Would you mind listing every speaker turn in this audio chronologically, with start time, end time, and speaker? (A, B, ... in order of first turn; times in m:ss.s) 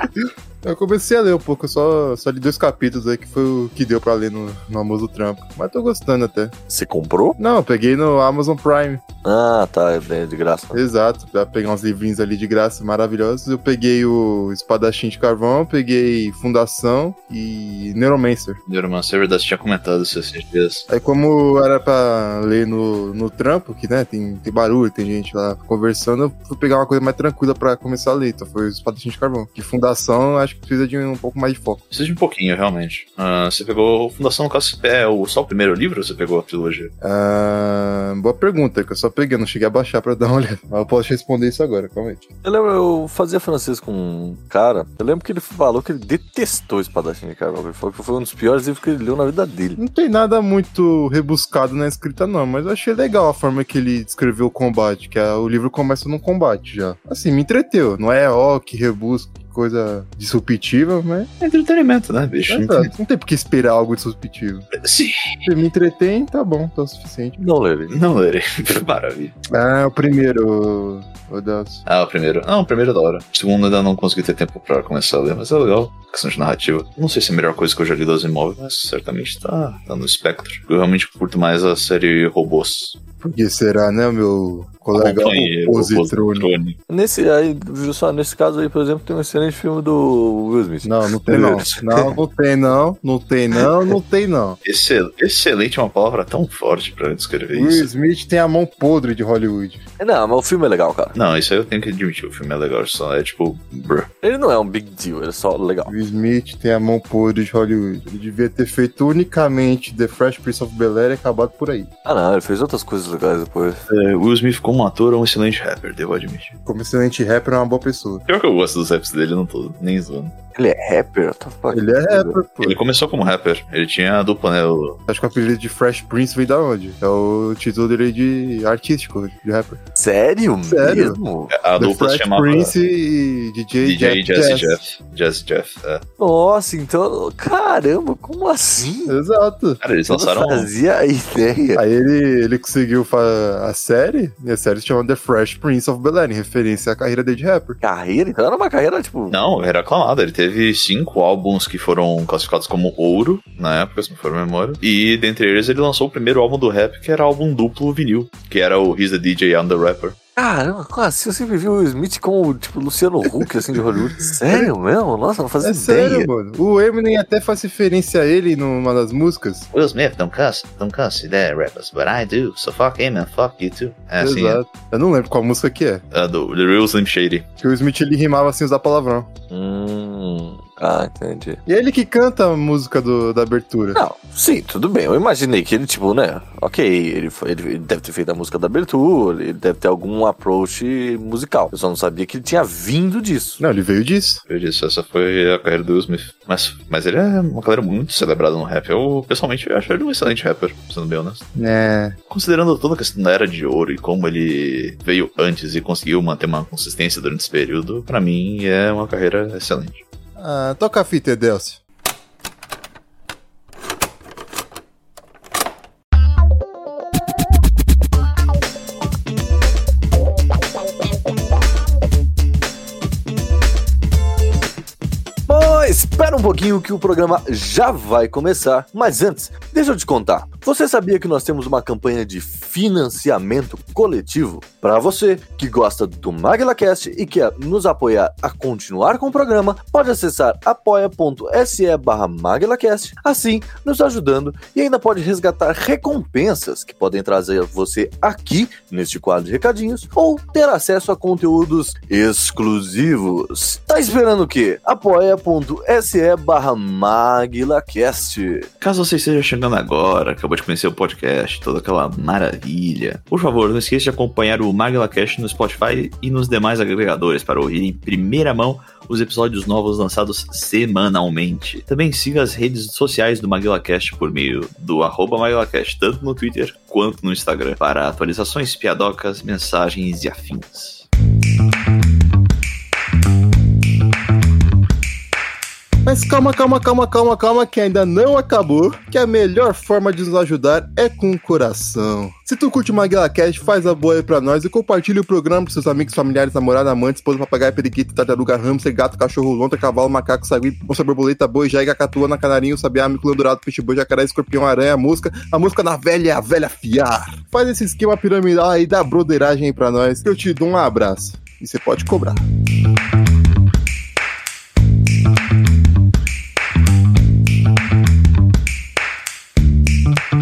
0:00.6-0:06.5 A
0:06.7-0:07.4 B
0:07.4-0:09.0 A
0:09.2-0:10.8 B
0:10.7-0:18.6 A
0:18.7-0:20.8 C
0:20.9-0:31.8 A
0:31.9-0:36.9 C
0:37.0-0:42.3 A
0:42.4-0:49.8 B
0:49.8-1:01.3 A
1:01.4-1:02.9 C
1:02.5-1:04.7 A
1:04.8-1:05.2 C
1:05.4-1:07.4 A
1:07.4-1:08.0 B
1:07.9-1:09.3 C
1:09.5-1:11.8 A
1:11.8-1:23.0 C
1:23.2-1:26.5 A
1:24.9-1:26.8 C
1:26.9-1:31.7 B
1:30.8-1:34.6 A
1:31.7-1:32.1 C
1:34.6-1:37.9 C
1:37.5-1:39.8 A
1:40.0-1:41.1 B
1:41.1-1:44.1 C
1:44.2-1:45.9 B
1:45.8-1:51.9 A
1:52.0-1:53.8 B
1:53.9-1:56.6 C
1:56.6-1:58.2 A
1:58.2-2:00.3 C
2:00.6-2:02.4 B
2:01.7-2:02.8 A
2:02.6-2:05.0 C
2:05.1-2:09.8 A
2:09.9-2:11.5 B
2:10.6-2:11.2 A
2:11.5-2:12.7 C
2:11.8-2:14.8 A
2:13.8-2:16.0 C
2:16.2-2:19.1 B
2:18.8-2:19.8 A
2:19.8-2:20.7 C
2:20.1-2:21.8 B
2:21.7-2:27.8 A
2:27.8-2:29.4 B
2:29.3-2:40.2 C
2:40.4-2:46.3 B
2:45.6-2:49.7 A
2:49.7-2:54.6 C
2:54.2-2:56.0 A
2:56.1-2:57.5 C
2:57.6-2:59.3 A
2:59.5-3:01.6 B
3:01.7-3:04.0 A
3:03.9-3:13.6 B
3:13.6-3:14.4 A
3:14.5-3:21.5 C
3:21.6-3:22.2 A
3:22.3-3:30.0 C
3:30.4-3:31.8 A
3:45.5-4:18.7 B
4:18.8-4:41.0 C
4:46.0-5:12.4 A